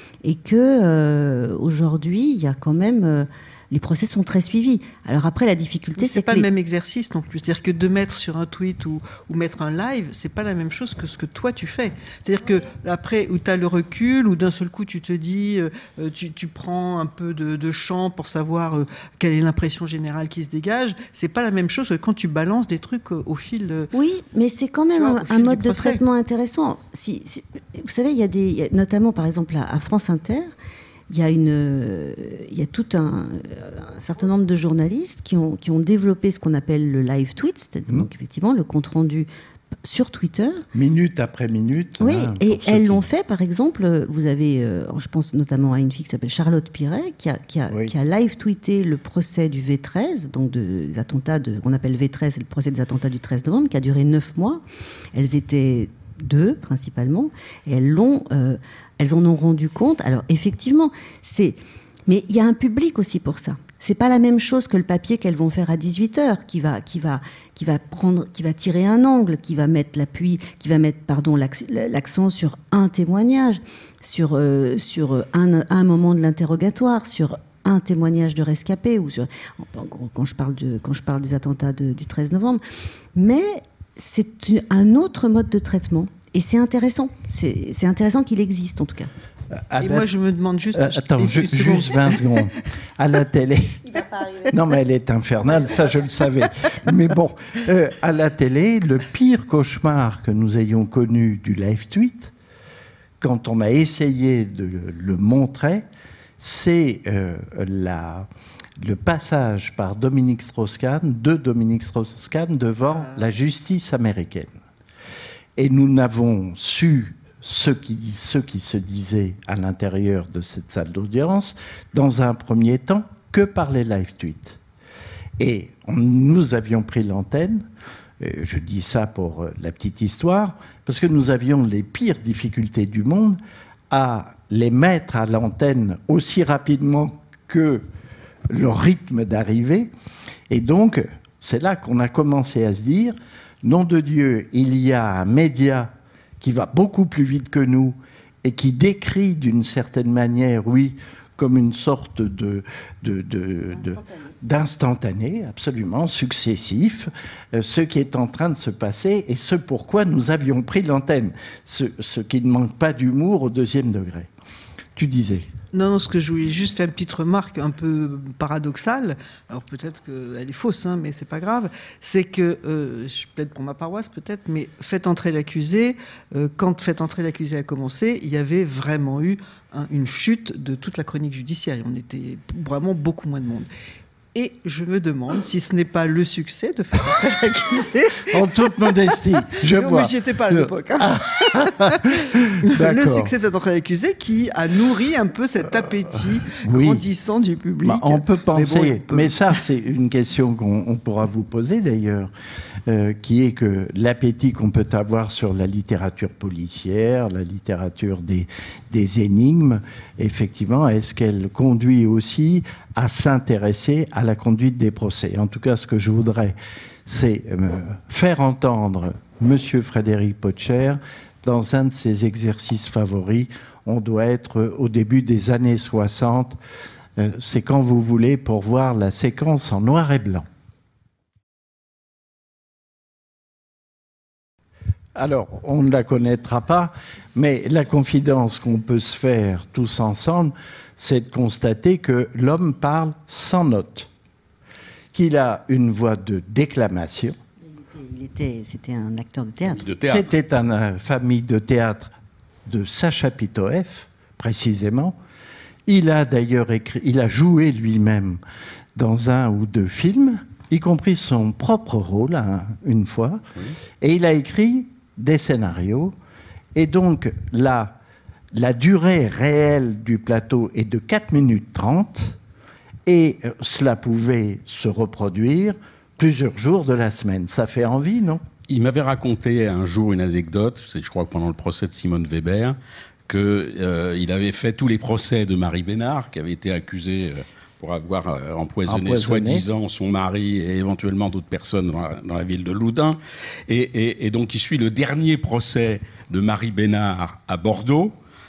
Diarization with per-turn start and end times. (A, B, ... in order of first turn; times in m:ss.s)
0:00.2-0:06.5 A
0:06.0-0:23.9 B
0:23.9-0:30.5 A
0:24.9-0:26.0 B
0:31.1-0:39.3 A
0:39.8-0:40.6 A
0:40.7-0:43.1 C
0:42.0-0:54.6 A
0:55.1-1:22.6 A
1:23.1-1:29.1 A
1:29.5-1:30.1 C
1:29.8-1:32.4 B
1:30.7-1:42.3 C
1:43.2-1:45.8 C
1:46.4-1:54.5 C
1:52.9-1:53.3 B
1:55.6-2:04.6 C
2:05.4-2:07.7 C
2:08.2-2:13.4 C
2:13.9-2:17.8 C
2:18.5-2:19.9 C
2:20.5-2:44.3 C
2:45.0-2:45.5 C
2:45.7-3:03.7 B
3:04.3-3:19.3 B
3:08.3-3:13.3 C
3:16.6-3:17.0 C
3:17.8-3:22.3 C
3:22.9-3:46.6 C
3:47.2-3:50.5 C
3:55.2-4:04.1 C
4:05.1-4:07.4 C
4:07.7-4:09.8 A
4:09.6-4:10.3 D
4:10.0-4:12.1 C
4:12.7-4:15.2 C
4:15.9-4:18.4 C
4:19.0-4:23.4 C
4:24.0-4:26.1 C
4:26.7-4:28.0 C
4:28.5-4:32.4 C
4:33.0-4:38.4 C
4:38.7-4:58.1 D
4:48.9-4:49.6 C